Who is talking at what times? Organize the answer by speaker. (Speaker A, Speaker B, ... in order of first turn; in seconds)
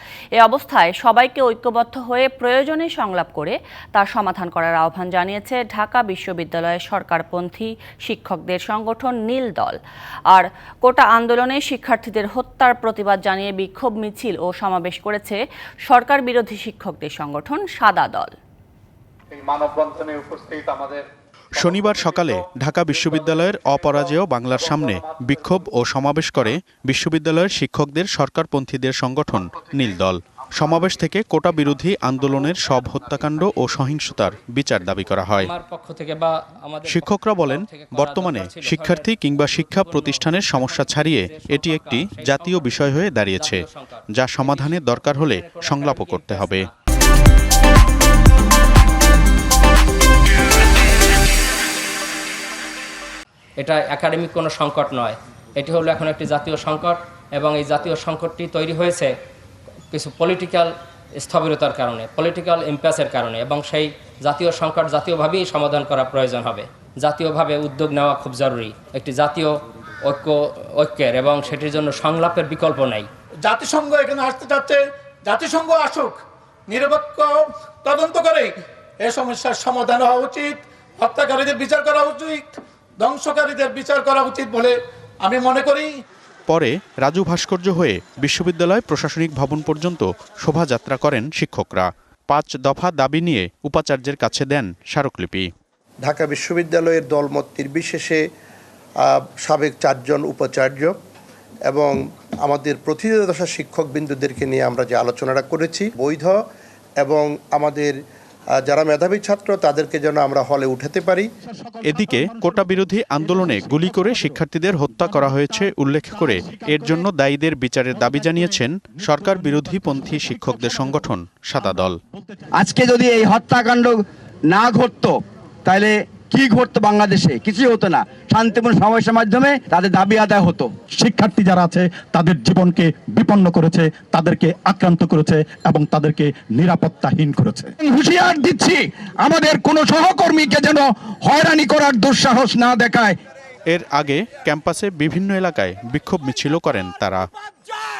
Speaker A: 0.4-9.8, 10.3-18.3
Speaker B: 19.4-21.0, 73.4-86.0
Speaker C: 21.5-35.5, 36.9-46.7, 86.5-95.5, 111.8-122.0, 143.7-147.3
Speaker D: 35.4-46.7, 53.6-59.1, 59.9-73.1
Speaker E: 96.0-98.2, 99.0-100.9, 101.7-106.4, 107.0-108.0, 108.6-111.3
Speaker F: 111.5-117.0, 117.9-122.4, 130.9-143.2
Speaker G: 122.6-130.7